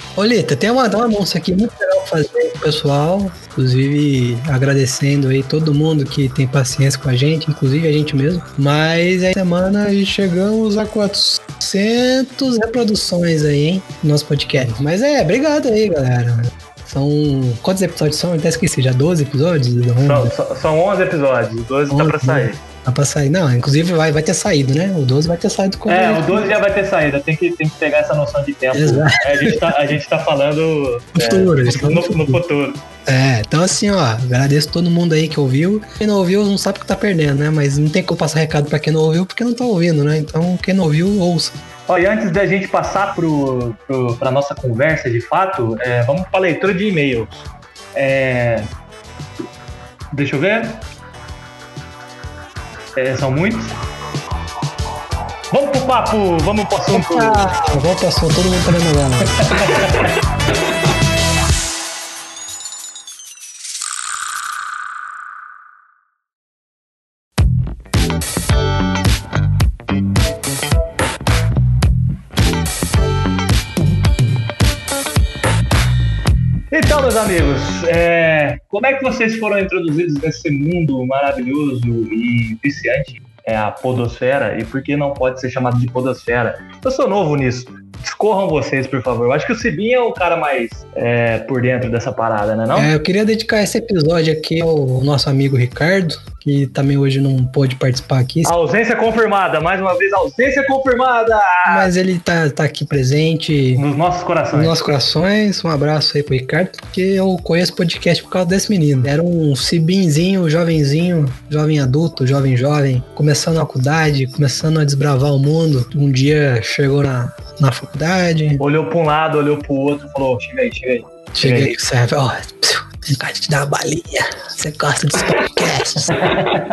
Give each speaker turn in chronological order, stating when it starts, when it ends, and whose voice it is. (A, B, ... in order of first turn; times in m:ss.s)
0:00.2-0:20.3 A
0:20.0-0:22.6 B
0:21.9-0:26.6 A
0:25.9-0:32.8 B
0:28.7-0:29.6 A
0:31.2-0:32.4 A
0:33.0-0:41.6 A
0:41.9-0:48.7 B
0:50.1-0:50.8 B
0:53.0-0:53.8 B
0:55.5-0:57.4 B
0:56.9-0:59.4 A
0:59.4-0:59.9 B
1:16.7-1:32.9 B
1:32.7-1:38.5 A
1:38.4-1:41.9 B
1:41.7-1:43.8 A
1:43.8-1:44.8 B
1:44.5-1:58.6 A
1:58.6-2:01.7 B
2:01.4-2:06.4 A
2:06.2-2:06.6 B